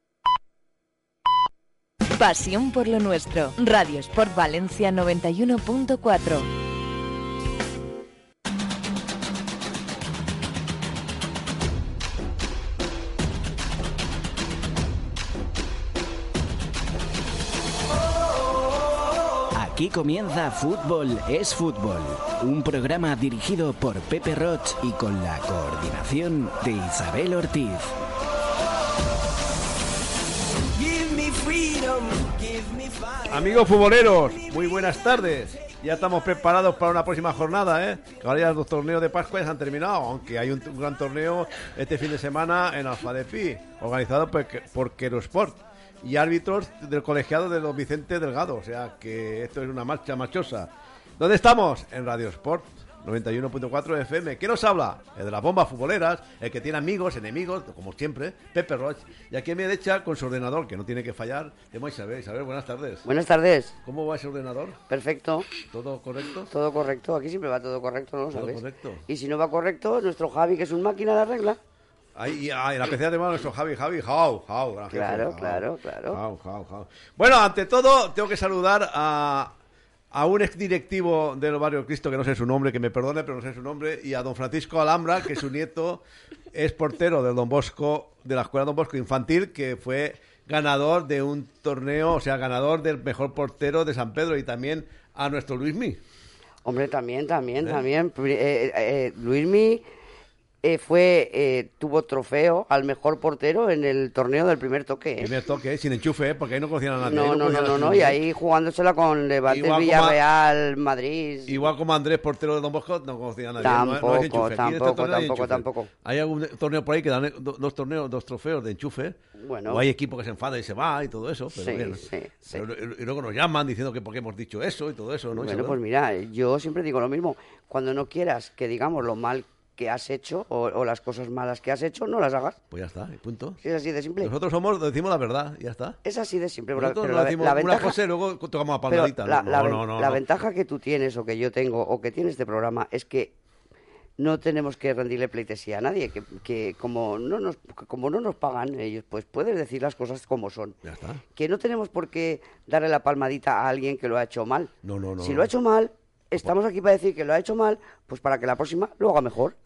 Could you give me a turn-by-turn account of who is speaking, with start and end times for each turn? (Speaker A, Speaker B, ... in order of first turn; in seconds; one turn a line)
Speaker A: 2.1-6.5
Speaker B: 19.5-27.9
Speaker B: 30.8-33.3
Speaker C: 33.3-63.1
Speaker D: 63.0-63.8
Speaker C: 63.8-64.8
Speaker D: 64.9-65.5
Speaker C: 65.6-66.5
Speaker D: 66.5-71.6
Speaker C: 68.3-69.0
Speaker C: 72.2-79.5
Speaker D: 74.9-76.2
Speaker C: 80.1-96.0
Speaker D: 96.6-99.8
Speaker C: 97.6-97.8
Speaker D: 100.6-105.3
Speaker C: 105.2-108.2
Speaker D: 107.0-111.6
Speaker C: 109.5-110.2
Speaker C: 111.5-125.8
Speaker D: 113.6-115.9
Speaker D: 119.4-119.8
Speaker D: 121.5-122.6
Speaker D: 125.3-132.6
Speaker C: 132.7-133.6
Speaker D: 133.6-134.3
Speaker C: 134.2-136.0
Speaker D: 136.0-138.0
Speaker C: 136.8-140.2
Speaker D: 138.9-143.3
Speaker D: 144.2-150.8
Speaker C: 150.8-151.2
Speaker D: 151.3-159.6
Speaker C: 154.8-155.5